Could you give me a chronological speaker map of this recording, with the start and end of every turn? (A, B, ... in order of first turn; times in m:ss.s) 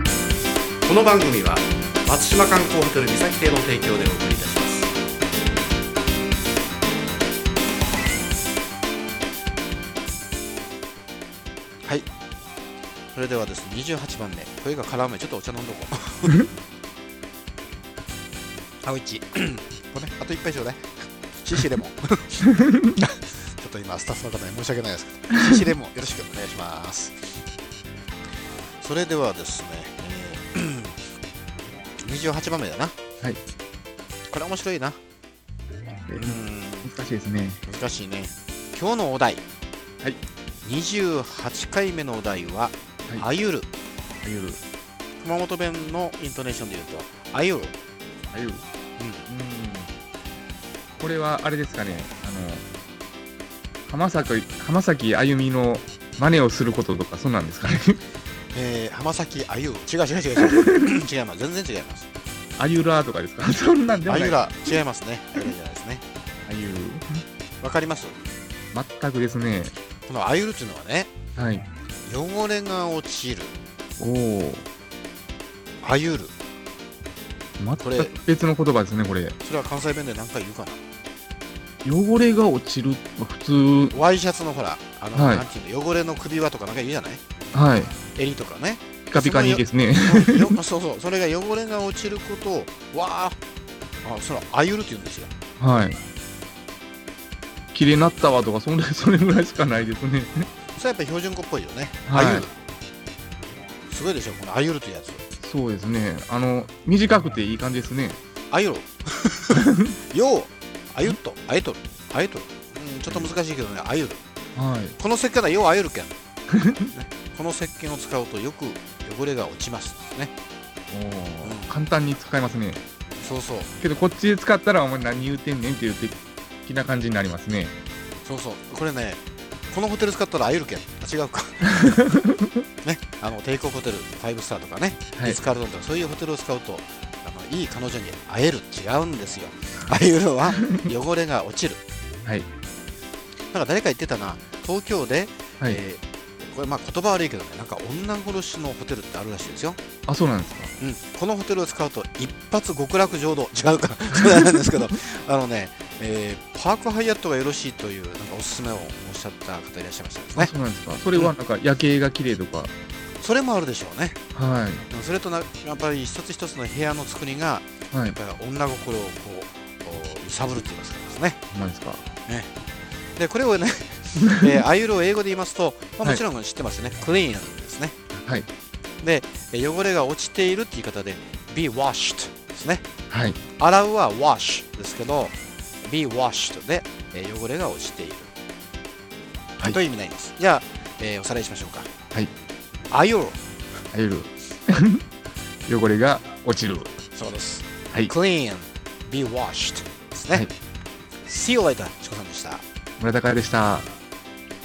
0:00.8-0:04.9 A
0:13.1-0:16.4 A
0:18.8-0:27.3 A
0:25.3-0:25.6 B
0:28.8-0:31.0 A
0:32.0-0:33.0 A
0:34.3-0:35.0 A
0:36.1-0:37.6 B
0:36.2-0:36.9 A
0:37.6-0:39.4 A
0:40.6-0:43.7 A
0:44.2-0:44.6 B
0:45.2-0:47.8 A
0:48.3-0:48.6 B
0:49.0-0:49.3 A
0:49.3-0:49.9 B
0:51.0-0:52.6 B
0:53.9-0:58.0 B
0:58.5-1:02.1 A
1:02.6-1:04.4 B
1:04.1-1:06.0 A
1:06.5-1:07.2 B
1:07.6-1:08.2 A
1:08.7-1:09.8 B
1:10.1-1:11.1 A
1:11.4-1:11.7 B
1:12.0-1:13.6 A
1:14.0-1:14.7 B
1:15.8-1:16.3 A
1:17.6-1:19.4 B
1:17.8-1:18.2 A
1:19.4-1:20.8 A
1:21.8-1:24.0 B
1:23.9-1:27.2 A
1:25.1-1:25.4 B
1:27.5-1:28.0 B
1:28.2-1:33.4 A
1:29.1-1:30.6 B
1:34.0-1:35.3 A
1:35.6-1:36.0 B
1:37.7-1:40.5 B
1:40.8-1:42.5 A
1:42.1-1:42.5 B
1:43.9-1:45.2 A
1:45.4-1:48.2 B
1:48.5-1:54.2 A
1:49.5-1:49.9 B
1:54.6-1:55.0 B
1:55.0-2:00.3 A
2:00.9-2:02.8 B
2:01.4-2:01.7 A
2:03.2-2:03.7 A
2:03.8-2:07.7 B
2:08.2-2:12.0 A
2:11.8-2:12.6 B
2:12.8-2:21.8 A
2:23.5-2:29.8 A
2:30.1-2:30.7 B
2:30.8-2:40.5 A
2:40.4-2:42.7 B
2:43.2-2:44.2 A
2:44.3-2:44.8 B
2:44.9-2:51.4 A
2:47.9-2:48.2 B
2:51.5-2:52.0 B
2:53.2-2:58.0 A
2:58.1-2:58.5 B
2:59.0-3:02.8 A
3:03.1-3:03.4 B
3:03.6-3:08.3 A
3:09.6-3:11.9 A
3:12.9-3:13.4 A
3:13.9-3:15.0 B
3:15.7-3:17.0 B
3:17.1-3:20.5 A
3:21.2-3:22.6 A
3:23.0-3:23.9 B